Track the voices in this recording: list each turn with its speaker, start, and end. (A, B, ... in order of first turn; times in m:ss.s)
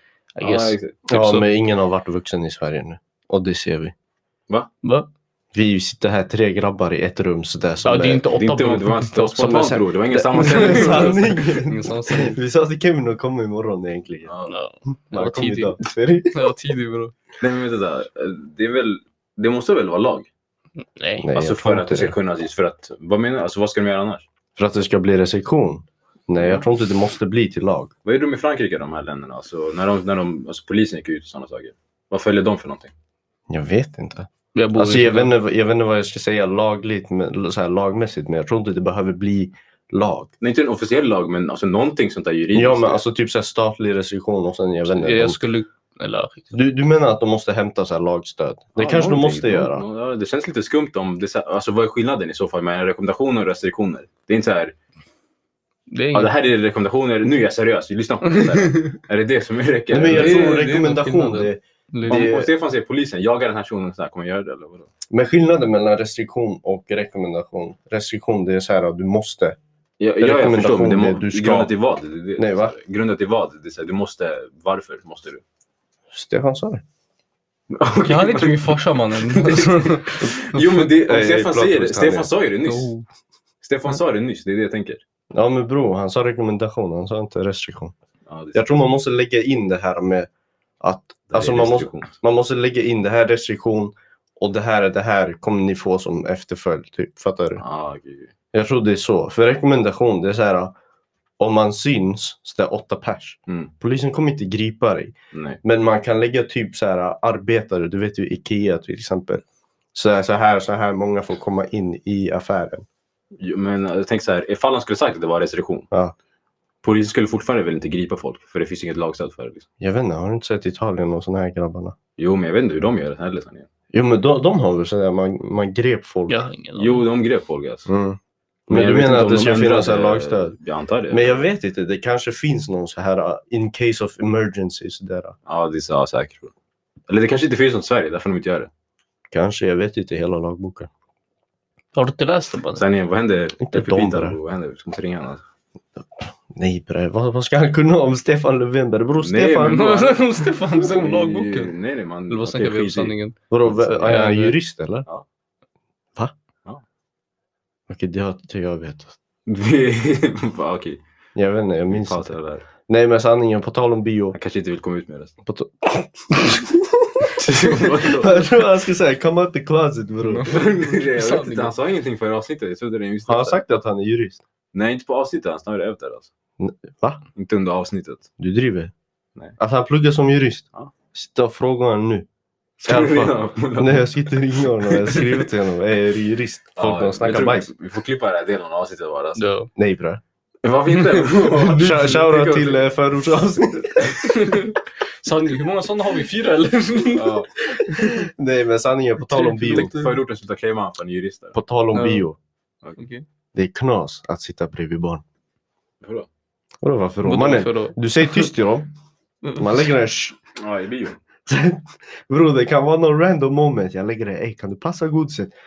0:00.4-0:01.3 A
0:00.4-0:01.4 B
0:01.1-0:03.9 C
0:04.8-0:05.1 A
0:05.5-0:08.3 C
0:07.8-0:09.6 A
0:08.3-0:11.3 B
0:09.2-0:14.3 C
0:10.4-0:12.4 A
0:14.2-0:14.6 B
0:14.5-0:15.8 A
0:15.1-0:16.5 C
0:16.3-0:17.1 A
0:17.4-0:20.3 B
0:20.9-0:21.3 A
0:21.2-0:22.1 C
0:21.3-0:24.2 B
0:24.6-0:27.9 C
0:26.4-0:26.6 B
0:28.0-0:32.9 B
0:33.5-0:40.3 C
0:34.5-0:35.3 A
0:40.4-0:43.0 B
0:42.5-0:45.4 C
0:44.9-0:46.5 A
0:46.5-0:49.8 C
0:48.8-0:54.7 B
0:55.9-0:56.3 A
0:56.1-1:00.5 B
0:58.2-0:59.0 A
0:59.9-1:02.5 C
1:00.1-1:02.2 A
1:02.1-1:04.9 B
1:05.1-1:09.6 C
1:10.0-1:15.4 B
1:10.2-1:11.7 C
1:12.4-1:12.8 C
1:16.1-1:16.8 C
1:17.7-1:22.9 B
1:18.0-1:20.3 A
1:21.0-1:22.3 C
1:22.6-1:23.0 A
1:23.6-1:25.0 B
1:25.3-1:27.9 C
1:28.3-1:28.8 B
1:28.5-1:30.3 C
1:30.8-1:37.6 C
1:31.3-1:32.1 B
1:37.6-1:38.3 B
1:38.5-1:40.7 C
1:41.4-1:49.4 C
1:43.5-1:43.7 B
1:45.3-1:45.6 B
1:49.9-1:52.8 C
1:53.4-1:55.9 B
1:56.8-1:59.7 B
1:59.8-2:01.9 C
2:02.2-2:03.7 B
2:03.9-2:06.4 C
2:06.3-2:07.0 A
2:06.8-2:07.9 B
2:07.9-2:10.5 C
2:08.7-2:11.4 B
2:11.1-2:15.3 C
2:15.4-2:16.5 B
2:17.1-2:18.7 B
2:19.3-2:20.9 C
2:21.9-2:22.8 A
2:22.7-2:25.4 B
2:23.6-2:24.4 C
2:26.0-2:29.9 C
2:29.2-2:33.1 B
2:29.7-2:31.7 A
2:32.3-2:34.6 A
2:33.5-2:35.0 C
2:37.9-2:39.1 C
2:39.5-2:41.0 B
2:41.4-2:44.4 C
2:41.9-2:42.6 B
2:44.3-2:45.3 B
2:45.4-2:50.6 C
2:47.4-2:48.4 B
2:50.2-2:51.7 A
2:50.4-2:53.6 B
2:53.3-2:54.4 C
2:54.7-2:56.3 B
2:56.6-2:57.2 C
2:57.4-2:58.3 B
2:58.4-2:58.9 C
2:59.6-3:02.3 C
3:02.8-3:07.7 C
3:02.8-3:04.3 B
3:06.8-3:09.4 B
3:09.4-3:09.7 A
3:09.8-3:10.2 C
3:10.6-3:12.8 B
3:10.9-3:12.2 A
3:11.7-3:14.6 C
3:14.2-3:18.2 A
3:17.1-3:17.5 B
3:17.8-3:19.9 C
3:19.2-3:20.1 A
3:19.7-3:21.5 B
3:21.5-3:22.4 C
3:21.9-3:22.3 A
3:23.0-3:23.2 A
3:23.5-3:25.2 C
3:26.0-3:26.3 B
3:26.8-3:28.9 C
3:27.2-3:28.5 A
3:29.6-3:30.4 C
3:30.6-3:31.2 B
3:31.4-3:35.5 C